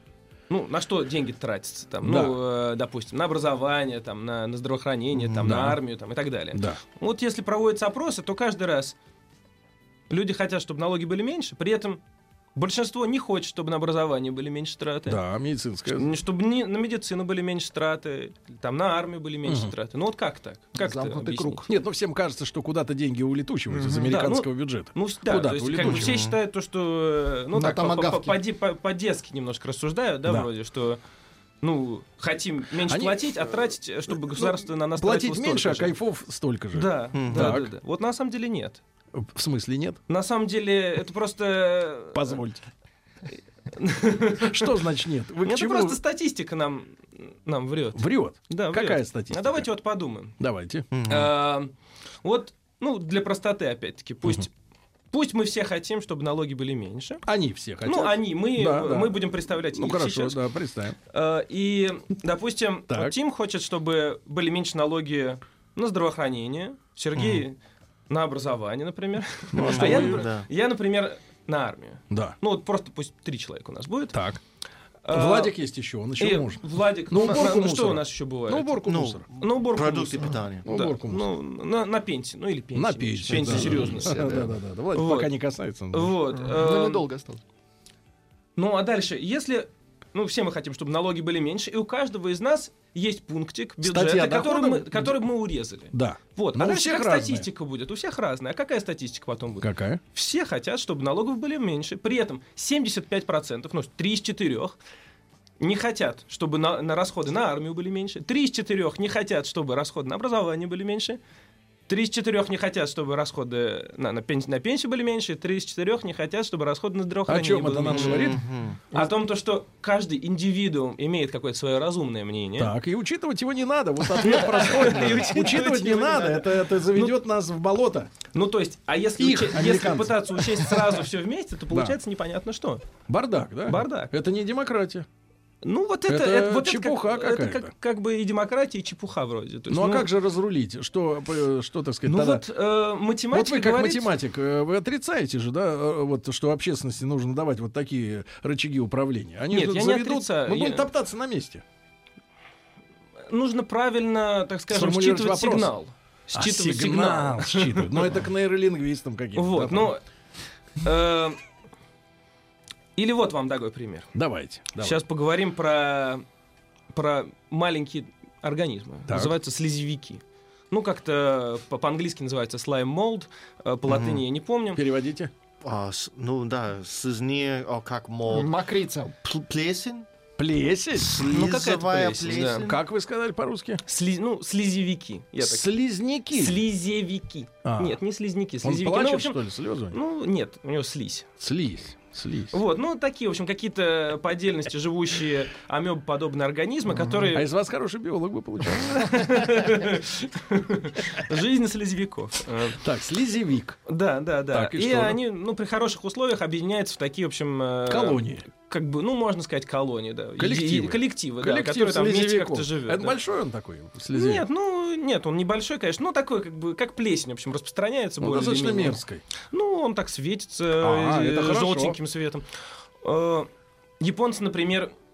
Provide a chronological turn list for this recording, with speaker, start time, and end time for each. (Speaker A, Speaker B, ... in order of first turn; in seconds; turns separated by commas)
Speaker A: 0.5-9.0, Speaker B: 2.0-2.4, Speaker B: 5.4-5.8, Speaker B: 6.5-6.8, Speaker A: 10.1-12.0, Speaker A: 12.6-15.2, Speaker B: 15.1-16.2, Speaker A: 15.9-21.7, Speaker B: 19.4-19.7, Speaker C: 20.8-21.7, Speaker B: 21.7-26.3, Speaker C: 23.7-24.1, Speaker A: 24.1-31.0, Speaker D: 25.8-26.4, Speaker C: 27.5-28.4, Speaker A: 31.6-36.0, Speaker B: 32.9-33.5, Speaker B: 34.1-37.7, Speaker A: 36.7-38.8, Speaker D: 37.1-37.6, Speaker B: 39.1-40.0, Speaker A: 40.1-42.4, Speaker B: 42.1-42.6, Speaker A: 43.7-44.8, Speaker B: 44.4-46.0, Speaker A: 45.4-50.4, Speaker B: 48.0-49.7, Speaker B: 50.4-50.9, Speaker D: 50.9-51.3, Speaker A: 51.0-54.5, Speaker A: 55.1-57.2, Speaker B: 57.3-61.0, Speaker A: 57.8-60.4, Speaker A: 61.1-67.6, Speaker B: 62.9-63.2, Speaker D: 67.2-67.4, Speaker A: 68.1-74.2, Speaker B: 69.5-70.2, Speaker D: 69.5-70.5, Speaker B: 72.1-72.4, Speaker B: 74.1-74.4, Speaker A: 75.0-75.6, Speaker B: 75.1-79.2, Speaker A: 76.2-78.8, Speaker D: 78.8-80.7, Speaker A: 79.4-84.3, Speaker B: 80.6-81.3, Speaker B: 82.7-86.1, Speaker C: 83.3-84.5, Speaker A: 84.9-85.3, Speaker A: 85.9-87.1, Speaker C: 86.3-87.4, Speaker A: 88.6-104.8, Speaker B: 93.8-95.2, Speaker B: 95.9-97.5, Speaker B: 99.6-100.0, Speaker A: 105.6-111.2, Speaker A: 111.9-118.4, Speaker B: 117.3-119.1, Speaker D: 117.9-118.8, Speaker A: 118.9-122.7, Speaker B: 122.6-128.1, Speaker A: 124.2-127.2, Speaker A: 128.3-132.9, Speaker B: 129.2-130.9, Speaker B: 131.7-132.0, Speaker B: 133.1-135.1, Speaker A: 133.7-134.1, Speaker A: 135.6-140.1, Speaker B: 136.1-137.7, Speaker B: 139.7-142.4, Speaker A: 142.1-144.1, Speaker B: 143.3-151.6, Speaker A: 149.5-150.9, Speaker A: 153.3-158.2, Speaker B: 154.7-155.7, Speaker B: 156.3-159.9, Speaker A: 159.3-160.0, Speaker A: 160.8-161.4, Speaker A: 163.0-164.1, Speaker B: 164.1-165.0, Speaker A: 164.8-166.2, Speaker A: 166.9-174.8, Speaker B: 169.1-169.4, Speaker D: 173.9-174.2, Speaker B: 174.8-175.3, Speaker D: 175.6-178.6, Speaker C: 178.3-179.2, Speaker D: 179.2-180.1, Speaker B: 180.4-181.3, Speaker D: 181.0-182.8, Speaker A: 181.2-182.7, Speaker B: 182.6-183.8, Speaker A: 183.8-185.7, Speaker B: 185.4-186.6, Speaker A: 186.3-191.3, Speaker B: 187.6-188.0, Speaker B: 188.6-190.0, Speaker B: 191.4-192.6, Speaker A: 192.5-197.5, Speaker B: 197.3-199.5, Speaker A: 198.8-202.8, Speaker B: 202.8-203.8, Speaker A: 203.9-213.2, Speaker B: 204.5-205.2, Speaker B: 207.9-208.5, Speaker B: 210.4-214.5, Speaker A: 214.1-222.5, Speaker B: 218.2-219.2, Speaker B: 220.8-222.0, Speaker A: 223.0-223.5, Speaker A: 224.0-224.9